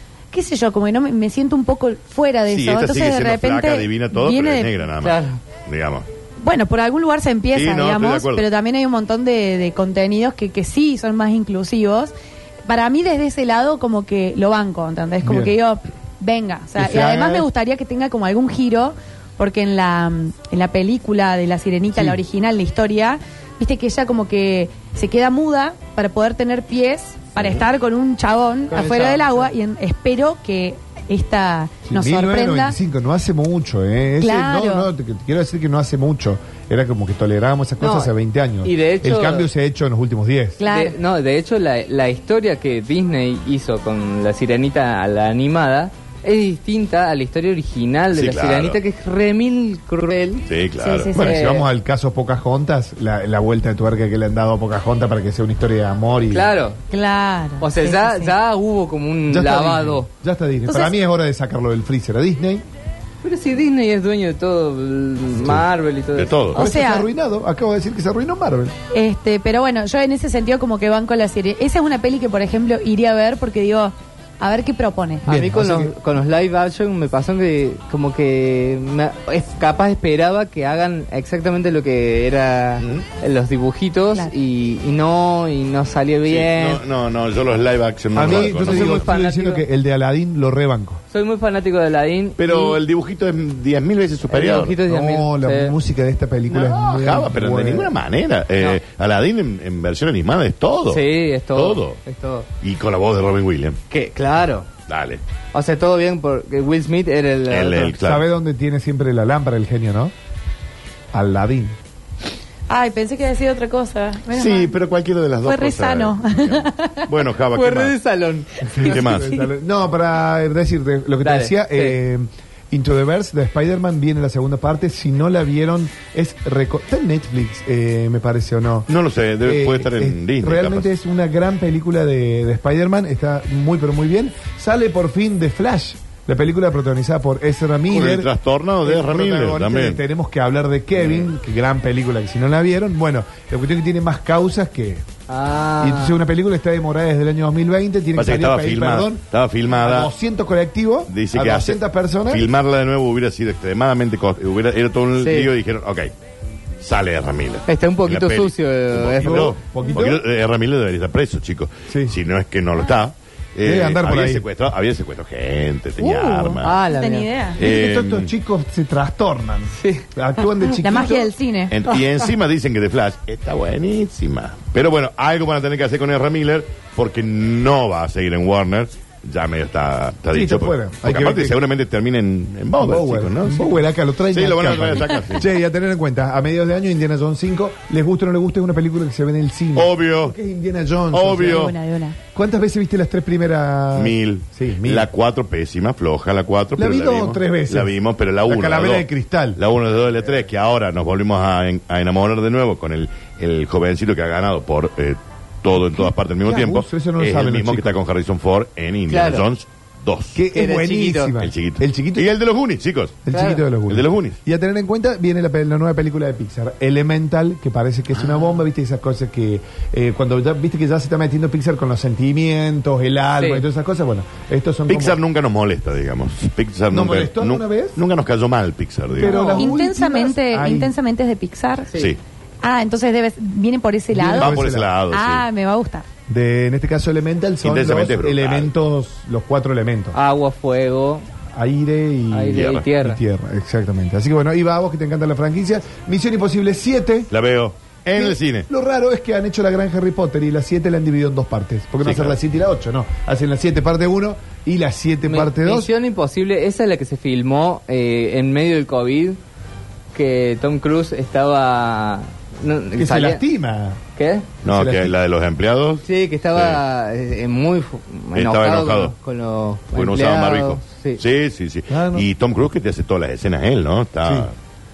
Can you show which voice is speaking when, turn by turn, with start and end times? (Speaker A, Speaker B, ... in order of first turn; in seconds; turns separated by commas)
Speaker A: 0.3-4.7, Speaker B: 2.5-6.0, Speaker C: 5.0-5.4, Speaker A: 6.4-12.1, Speaker B: 7.5-8.5, Speaker A: 12.7-32.8, Speaker D: 15.2-15.5, Speaker D: 16.8-17.5, Speaker D: 21.9-22.2, Speaker C: 28.7-29.5, Speaker D: 31.9-40.6, Speaker A: 34.2-34.9, Speaker C: 37.8-38.1, Speaker C: 38.6-39.5, Speaker A: 40.6-41.0, Speaker C: 40.6-50.5, Speaker B: 48.1-48.8, Speaker B: 50.5-51.1, Speaker A: 50.8-51.4, Speaker D: 51.1-56.5, Speaker C: 51.1-51.6, Speaker C: 56.3-56.8, Speaker A: 56.9-58.3, Speaker C: 57.6-60.1, Speaker D: 59.3-62.6, Speaker A: 60.7-60.9, Speaker C: 63.2-66.5, Speaker B: 66.1-66.6, Speaker D: 66.5-68.7, Speaker A: 66.5-67.1, Speaker A: 68.9-75.2, Speaker C: 75.2-86.8, Speaker D: 75.2-75.9, Speaker B: 86.3-89.0, Speaker D: 88.1-91.0, Speaker C: 88.2-89.6, Speaker C: 91.1-92.8, Speaker B: 92.4-94.8, Speaker C: 94.3-95.7, Speaker D: 94.9-97.9, Speaker B: 96.5-102.0, Speaker C: 100.9-102.5, Speaker B: 102.6-103.8, Speaker C: 103.9-104.7, Speaker B: 104.9-105.2, Speaker C: 105.5-108.0, Speaker B: 107.5-108.2, Speaker D: 107.9-110.1, Speaker D: 111.1-111.8, Speaker A: 112.7-114.7, Speaker B: 114.3-118.0, Speaker A: 115.4-117.0, Speaker C: 117.5-118.8, Speaker D: 118.7-128.9, Speaker B: 118.8-119.4, Speaker C: 121.2-122.0, Speaker B: 128.9-130.9, Speaker D: 129.4-138.3, Speaker B: 137.9-140.0, Speaker D: 138.8-145.1, Speaker B: 141.0-141.2, Speaker C: 145.3-146.2, Speaker D: 145.8-152.4, Speaker B: 148.2-150.1, Speaker B: 151.1-156.1, Speaker C: 155.2-155.5, Speaker B: 156.8-166.8, Speaker C: 157.7-159.5, Speaker D: 159.2-160.2, Speaker D: 161.9-162.2, Speaker D: 163.6-164.4, Speaker A: 166.0-167.6, Speaker C: 166.6-167.3, Speaker B: 167.6-168.3, Speaker D: 167.6-171.3, Speaker C: 169.7-170.0, Speaker A: 170.8-171.8, Speaker B: 171.7-183.8, Speaker D: 180.3-181.6, Speaker D: 182.8-191.7, Speaker B: 184.3-185.4, Speaker B: 189.7-190.3, Speaker B: 191.1-191.7, Speaker A: 191.4-192.2, Speaker D: 192.3-195.1, Speaker B: 193.9-210.4, Speaker D: 196.8-197.9, Speaker D: 198.4-199.6, Speaker D: 205.8-207.9, Speaker C: 209.1-209.4, Speaker D: 210.3-212.3, Speaker C: 210.5-211.3, Speaker B: 211.4-213.2, Speaker D: 213.2-225.2, Speaker C: 213.3-213.6, Speaker B: 213.9-214.4, Speaker C: 223.4-223.6, Speaker B: 224.9-229.3, Speaker D: 226.9-228.0, Speaker D: 229.1-230.9, Speaker A: 229.2-231.9, Speaker C: 229.3-229.8, Speaker A: 232.6-234.6, Speaker D: 234.1-234.9, Speaker B: 234.4-235.5, Speaker A: 235.1-236.1, Speaker D: 236.3-240.2, Speaker B: 237.6-238.7, Speaker C: 240.1-241.2, Speaker D: 241.5-247.3, Speaker C: 242.3-243.2, Speaker B: 242.5-242.8, Speaker B: 247.3-248.7, Speaker D: 248.2-255.9, Speaker B: 252.0-252.4, Speaker C: 255.2-259.4, Speaker C: 260.1-263.4, Speaker D: 262.9-264.0, Speaker C: 264.1-264.5, Speaker D: 264.6-265.1, Speaker B: 264.6-266.8, Speaker C: 266.0-271.2, Speaker B: 268.3-269.1, Speaker B: 269.9-274.5, Speaker D: 271.9-272.3